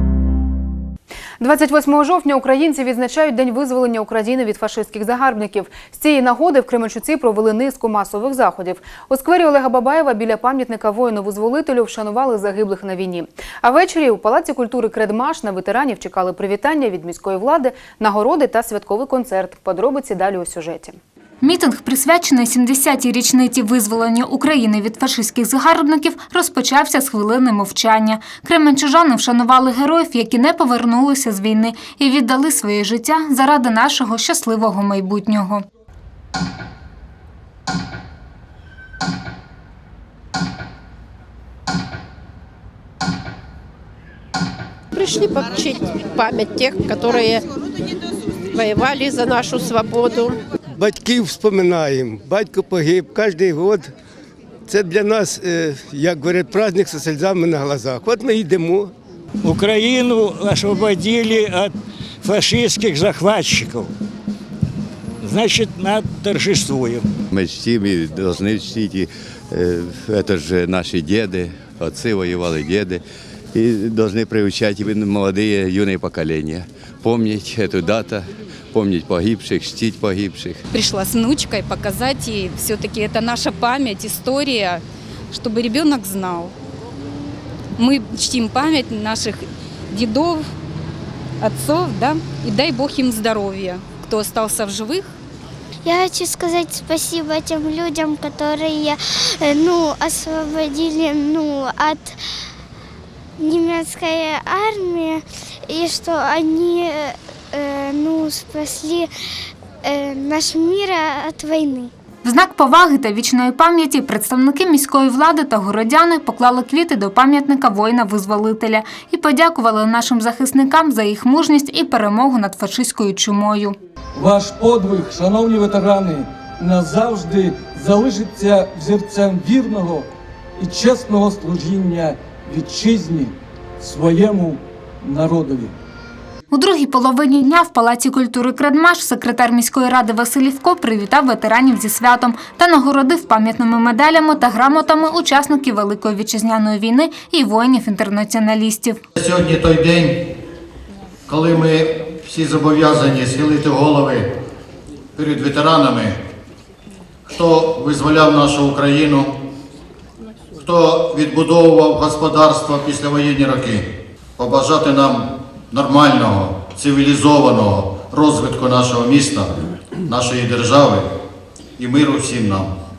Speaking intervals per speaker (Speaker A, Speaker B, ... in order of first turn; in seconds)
Speaker A: 1.4-21.0
Speaker B: 21.4-35.6, 112.2-123.8, 136.5-149.0
Speaker C: 45.0-47.4, 48.5-50.4
Speaker D: 50.8-53.9, 54.7-58.9
Speaker E: 59.4-61.7, 62.2-63.9, 65.2-67.0
Speaker F: 67.3-73.0, 73.5-80.6
Speaker G: 80.7-86.5, 87.8-90.5, 91.4-95.1
Speaker H: 95.8-102.2, 103.4-109.1, 109.8-111.9
Speaker I: 124.2-130.1, 130.6-135.7
Speaker J: 149.2-150.2, 151.3-154.3, 155.2-156.2, 157.3-159.3, 160.6-163.8, 164.4-169.5, 170.1-171.1, 171.8-172.7